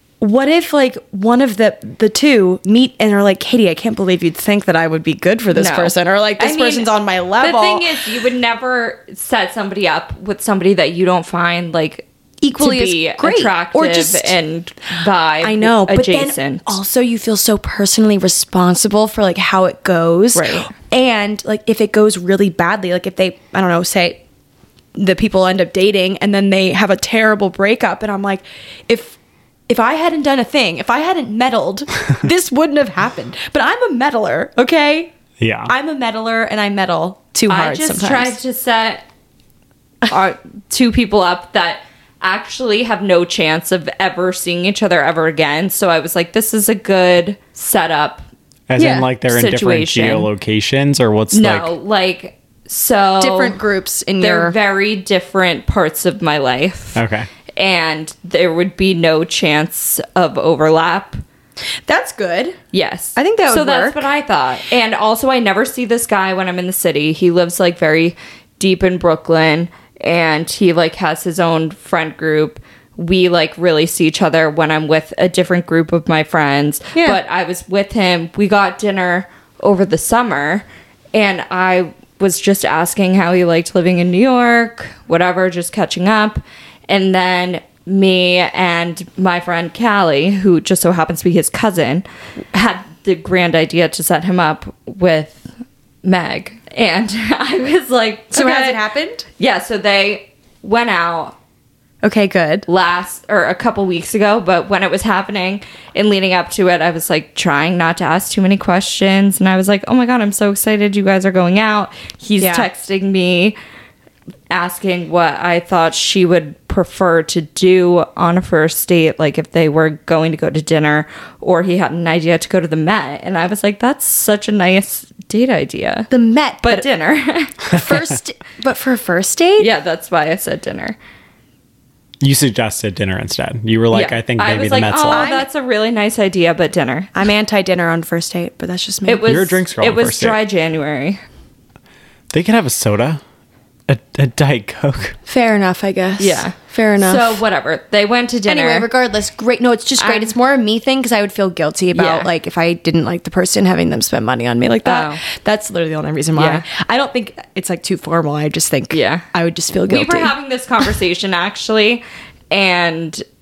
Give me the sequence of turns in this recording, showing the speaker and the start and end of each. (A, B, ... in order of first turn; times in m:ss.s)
0:00.2-0:08.0 A
0:05.5-0:16.8 B
0:12.4-0:14.3 A
0:15.4-0:24.2 A
0:20.3-0:20.7 B
0:24.9-0:35.1 A
0:35.4-0:35.7 C
0:35.6-0:38.4 A
0:37.5-0:39.0 B
0:40.1-0:48.2 B
0:48.7-0:51.7 C
0:48.8-0:49.1 A
0:49.3-0:50.3 B
0:51.3-0:53.6 B
0:53.2-0:54.6 A
0:54.2-0:57.0 B
0:56.9-0:57.3 C
0:57.6-1:01.2 B
1:01.9-1:02.6 A
1:02.7-1:35.5 B
1:03.2-1:04.1 A
1:36.0-1:38.8 B
1:38.3-1:39.2 A
1:39.4-1:41.4 B
1:42.0-1:42.7 A
1:42.7-1:53.6 B
1:52.4-1:52.7 A
1:54.5-2:06.1 B
2:06.1-2:06.9 A
2:06.6-2:07.8 B
2:07.7-2:09.7 A
2:09.6-2:11.0 B
2:12.2-2:15.3 C
2:13.9-2:17.1 B
2:15.1-2:15.5 A
2:17.1-2:19.3 A
2:19.0-2:21.2 B
2:19.2-2:20.4 C
2:22.3-2:23.2 C
2:23.9-2:25.2 C
2:25.2-2:27.4 A
2:26.2-2:28.9 B
2:28.4-2:40.3 A
2:30.0-2:30.3 B
2:31.9-2:32.3 B
2:34.8-2:35.2 B
2:36.3-2:36.6 B
2:38.9-2:39.2 B
2:39.9-2:43.2 B